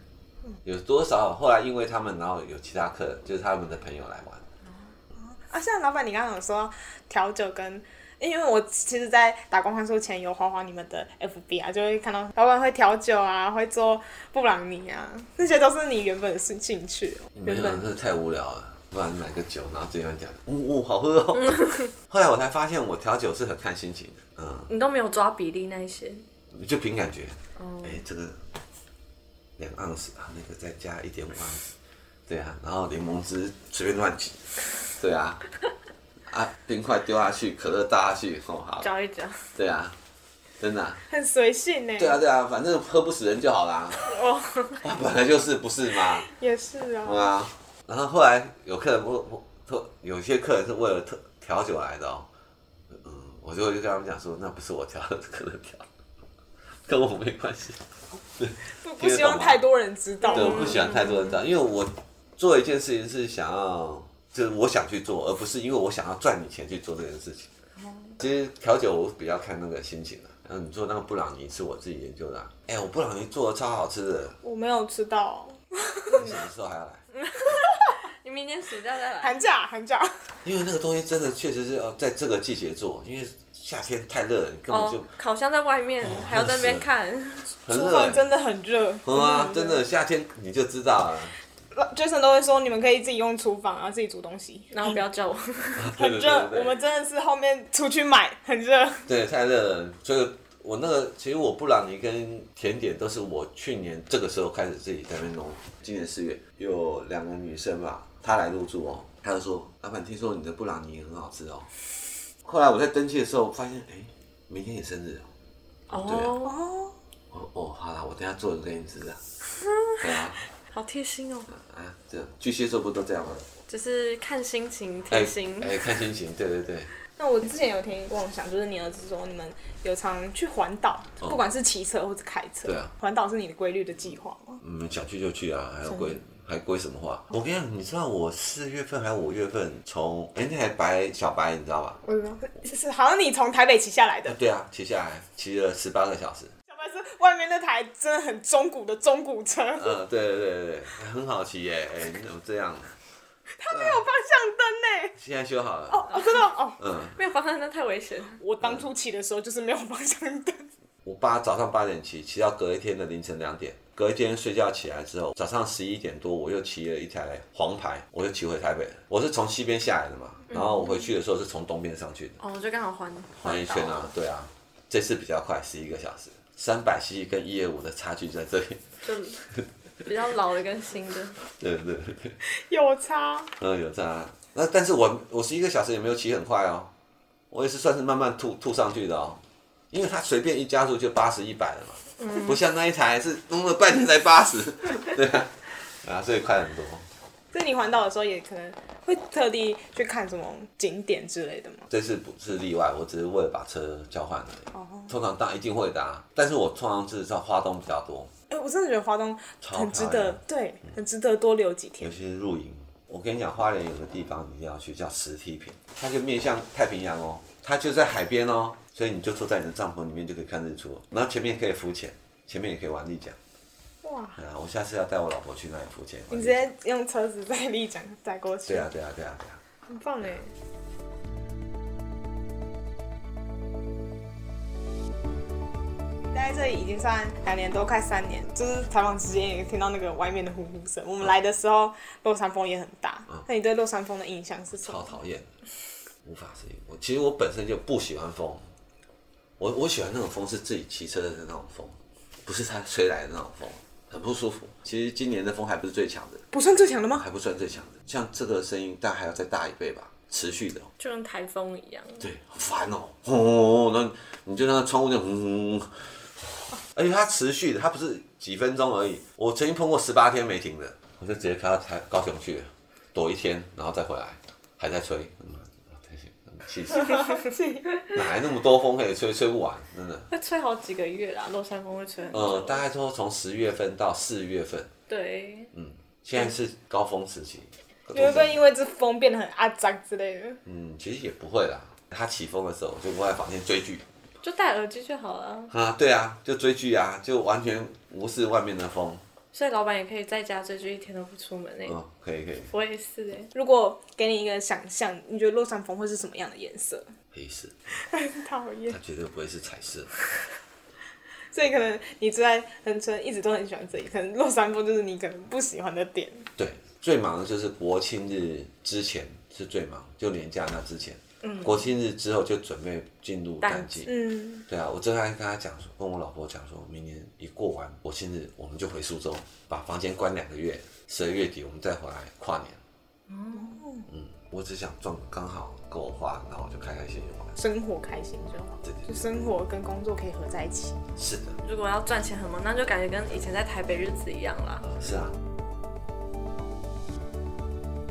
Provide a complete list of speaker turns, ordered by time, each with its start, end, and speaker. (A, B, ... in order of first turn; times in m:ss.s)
0:00.6-0:04.4 A
0:05.2-0:17.9 B
0:17.4-0:24.7 A
0:21.5-0:21.9 C
0:24.7-0:26.2 C
0:26.5-0:28.4 A
0:27.6-0:28.0 C
0:29.6-0:31.7 A
0:32.3-0:35.4 A
0:36.3-0:38.9 A
0:38.8-0:39.5 C
0:39.6-0:40.0 A
0:40.6-0:41.0 A
0:41.1-0:42.2 B
0:42.0-0:44.1 A
0:44.0-0:44.8 C
0:44.8-0:46.3 A
0:46.2-0:47.3 B
0:47.0-0:52.3 A
0:52.9-0:55.9 A
0:56.8-0:59.6 A
0:58.7-1:00.9 B
1:00.3-1:01.4 C
1:00.3-1:07.5 A
1:08.2-1:14.4 A
1:14.4-1:16.4 B
1:16.1-1:17.0 A
1:17.2-1:19.4 C
1:19.2-1:20.4 B
1:20.4-1:25.1 A
1:24.7-1:27.5 C
1:26.0-1:26.9 A
1:27.6-1:28.3 A
1:27.7-1:29.8 B
1:29.0-1:31.4 A
1:31.7-1:35.0 B
1:34.7-1:35.9 C
1:35.8-1:36.8 A
1:35.9-1:39.1 B
1:39.1-1:51.7 A
1:52.4-1:55.3 A
1:55.9-1:56.4 A
1:55.9-1:56.6 C
1:56.4-1:57.0 B
1:57.3-1:59.2 A
1:59.6-2:00.0 C
2:00.0-2:00.5 A
2:00.6-2:01.5 C
2:01.5-2:03.5 A
2:03.7-2:05.8 C
2:05.1-2:06.9 A
2:07.2-2:14.6 B
2:12.6-2:12.9 A
2:14.6-2:22.0 A
2:15.9-2:16.2 B
2:22.0-2:24.4 B
2:24.2-2:26.5 A
2:26.7-2:30.0 B
2:29.8-2:33.0 A
2:33.6-2:35.2 B
2:33.7-2:34.0 A
2:35.2-2:36.2 A
2:35.9-2:36.8 B
2:36.8-2:37.2 A
2:37.1-2:38.4 C
2:38.4-2:40.7 B
2:41.0-2:52.4 A
2:50.5-2:51.1 C
2:52.4-2:54.1 C
2:53.4-2:59.0 A
2:59.0-2:59.5 C
3:00.0-3:01.4 C
3:01.4-3:02.4 A
3:02.4-3:03.5 B
3:03.6-3:06.9 A
3:07.5-3:17.0 A
3:12.2-3:12.6 C
3:17.5-3:21.9 B
3:21.9-3:28.3 A
3:24.7-3:25.1 B
3:28.5-3:32.1 B
3:29.6-3:30.4 A
3:32.0-3:43.4 A
3:44.0-3:44.4 B
3:44.4-3:46.7 A
3:46.3-3:48.9 B
3:48.7-3:49.6 A
3:49.9-3:50.4 B
3:56.3-4:05.2 B
4:04.8-4:05.5 A
4:06.2-4:08.6 A
4:09.6-4:16.4 A
4:16.5-4:17.2 B
4:17.1-4:20.9 A
4:21.0-4:22.3 C
4:22.2-4:37.5 A
4:36.9-4:38.0 B
4:38.0-4:40.3 A
4:40.3-4:42.8 C
4:42.3-4:44.9 A
4:45.1-4:45.7 C
4:45.7-4:48.6 A
4:48.1-4:50.6 B
4:50.6-4:54.0 A
4:54.4-4:55.7 C
4:55.7-4:59.2 A
4:59.5-5:02.0 C
5:01.8-5:02.7 A
5:02.7-5:03.5 C
5:03.5-5:07.1 B
5:07.3-5:07.7 A
5:08.0-5:09.0 B
5:08.9-5:10.1 A
5:11.5-5:16.5 B
5:16.6-5:24.1 A
5:21.4-5:21.8 B
5:23.6-5:24.0 C
5:24.0-5:24.6 B
5:24.7-5:32.8 A
5:33.3-5:33.8 C
5:33.5-5:34.0 B
5:34.1-5:37.6 A
5:37.6-5:41.0 B
5:38.8-5:39.5 A
5:41.2-5:41.6 A
5:41.6-5:44.8 C
5:44.8-5:45.4 A